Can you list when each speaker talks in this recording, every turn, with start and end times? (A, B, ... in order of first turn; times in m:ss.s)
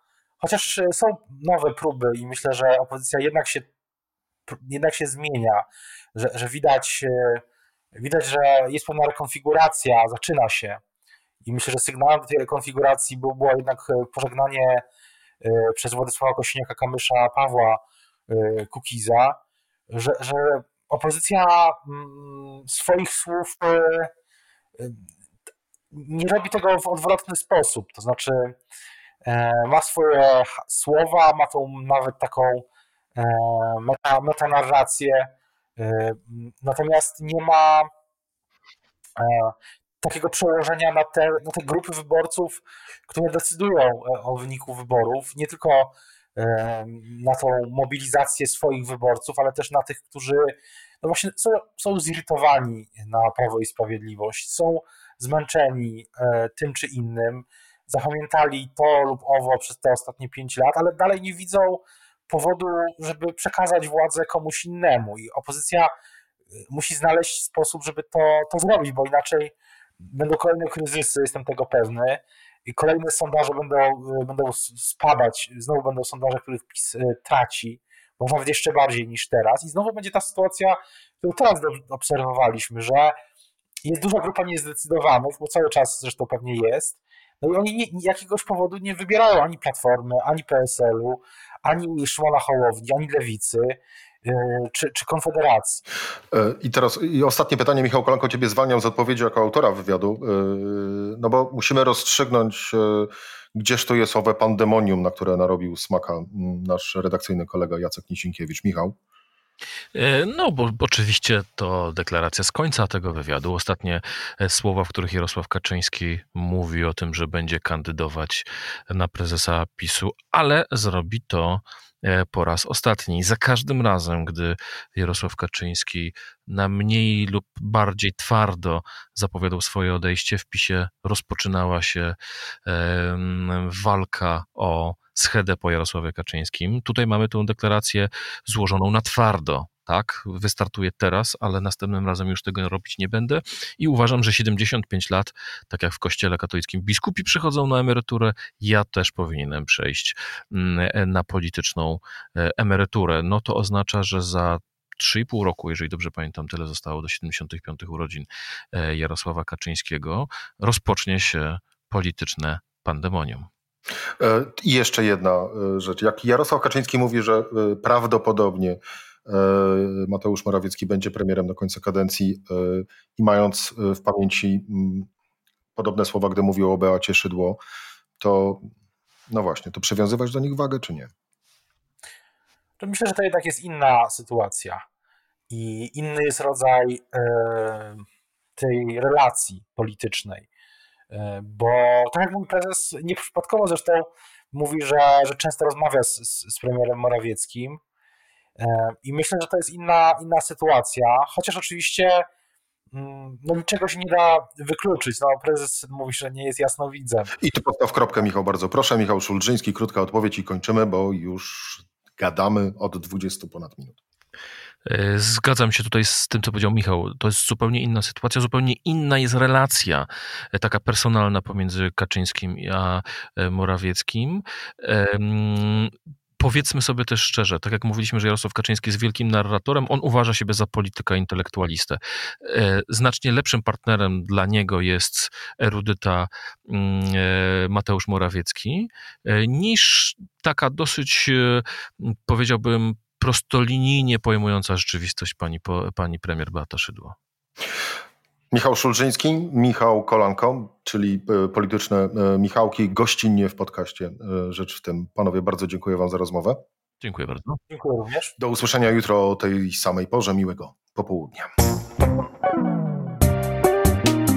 0:00.4-0:03.7 A
0:04.5-0:07.4 A
0:07.9-0:10.8 A
0:11.4-0:14.8 A
0:15.4-0:19.4 A
0:19.9-0:24.1 A
0:24.8-0:25.0 A
0:25.9-0:28.6 A
0:29.2-0:37.9 A
0:39.2-1:05.9 A
1:06.7-1:23.2 A
1:23.8-1:35.8 A
1:36.3-1:49.0 B
1:49.9-2:43.5 C
2:44.2-2:55.1 B
2:55.8-2:57.6 B
2:58.2-2:58.7 B
2:59.3-3:01.1 B
3:02.8-3:04.8 A
3:05.5-3:08.0 A
3:08.6-3:10.5 A
3:11.1-3:17.8 A
3:18.6-3:22.3 A
3:22.9-3:27.3 A
3:27.4-3:34.0 B
3:34.8-4:07.2 C
4:08.5-4:16.6 B
4:17.0-4:17.6 C
4:17.7-4:18.4 A
4:18.4-4:21.5 B